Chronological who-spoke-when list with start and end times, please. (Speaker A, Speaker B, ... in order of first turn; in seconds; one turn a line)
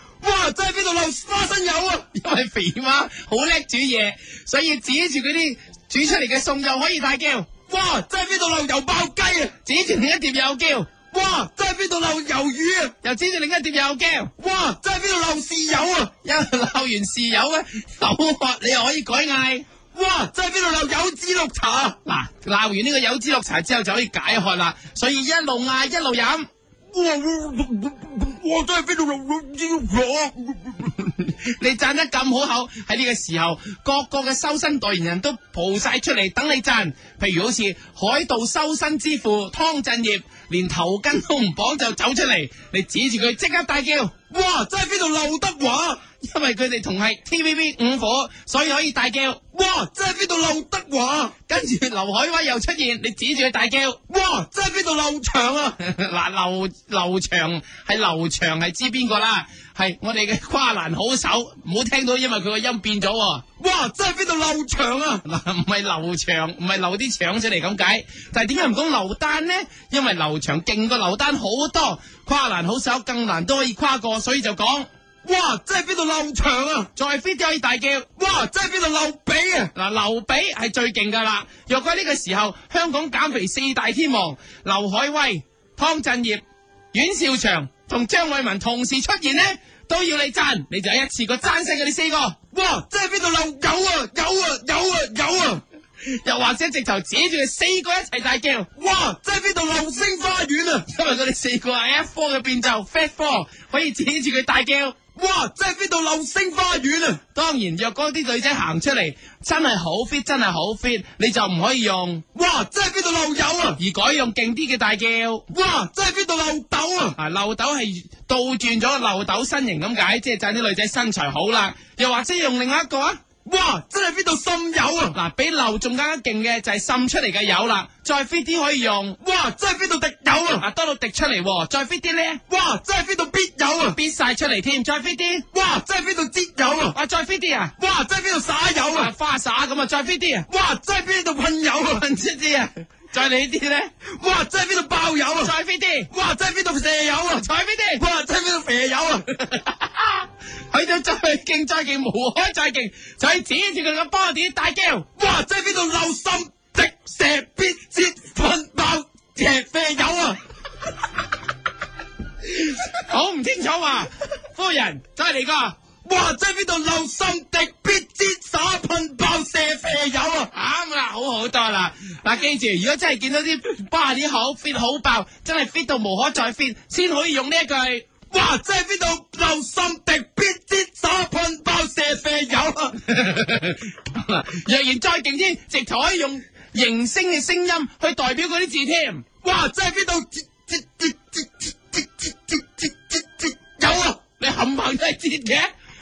Speaker A: 0.2-2.1
Speaker B: 2.1-7.5
Speaker A: 7.7-9.5
Speaker B: 9.6-10.9
Speaker A: 11.1-12.9
Speaker B: 13.0-14.3
Speaker A: 14.4-16.1
Speaker B: 16.2-19.7
Speaker A: 19.9-22.0
Speaker B: 22.0-26.5
Speaker A: 26.9-30.9
Speaker B: 31.0-44.1
Speaker A: 44.3-46.0
Speaker B: 46.2-49.4
Speaker A: 49.5-51.4
Speaker B: 51.5-54.0
Speaker A: 54.1-55.8
Speaker B: 55.7-63.5
Speaker A: 63.6-65.2
Speaker B: 65.2-74.9
Speaker A: 75.2-76.9
Speaker B: 77.0-78.1
Speaker A: 78.2-79.7
Speaker B: 79.8-92.4
Speaker A: 92.5-95.6
Speaker B: 96.1-98.7
Speaker A: 98.8-100.8
Speaker B: 100.9-105.0
Speaker A: 105.2-107.2
Speaker B: 107.3-112.2
Speaker A: 112.3-113.8
Speaker B: 113.8-115.5
Speaker A: 115.5-117.2
Speaker B: 117.2-123.2
Speaker A: 123.5-125.2
Speaker B: 125.1-129.2
Speaker A: 129.2-130.6
Speaker B: 130.6-132.4
Speaker A: 132.5-134.0
Speaker B: 133.9-135.4
Speaker A: 135.5-137.0
Speaker B: 136.9-137.7
Speaker A: 137.8-139.1
Speaker B: 138.9-140.5
Speaker A: 140.5-142.0
Speaker B: 141.8-143.9
Speaker A: 144.1-145.5
Speaker B: 145.4-146.1
Speaker A: 146.1-147.4
Speaker B: 147.3-148.0
Speaker A: 148.0-149.3
Speaker B: 149.3-155.1
Speaker A: 155.2-160.4
Speaker B: 162.5-165.8
Speaker A: 166.0-170.5
Speaker B: 170.5-178.1
Speaker A: 178.3-183.0
Speaker B: 183.1-189.2
Speaker A: 189.4-194.2
Speaker B: 194.2-195.7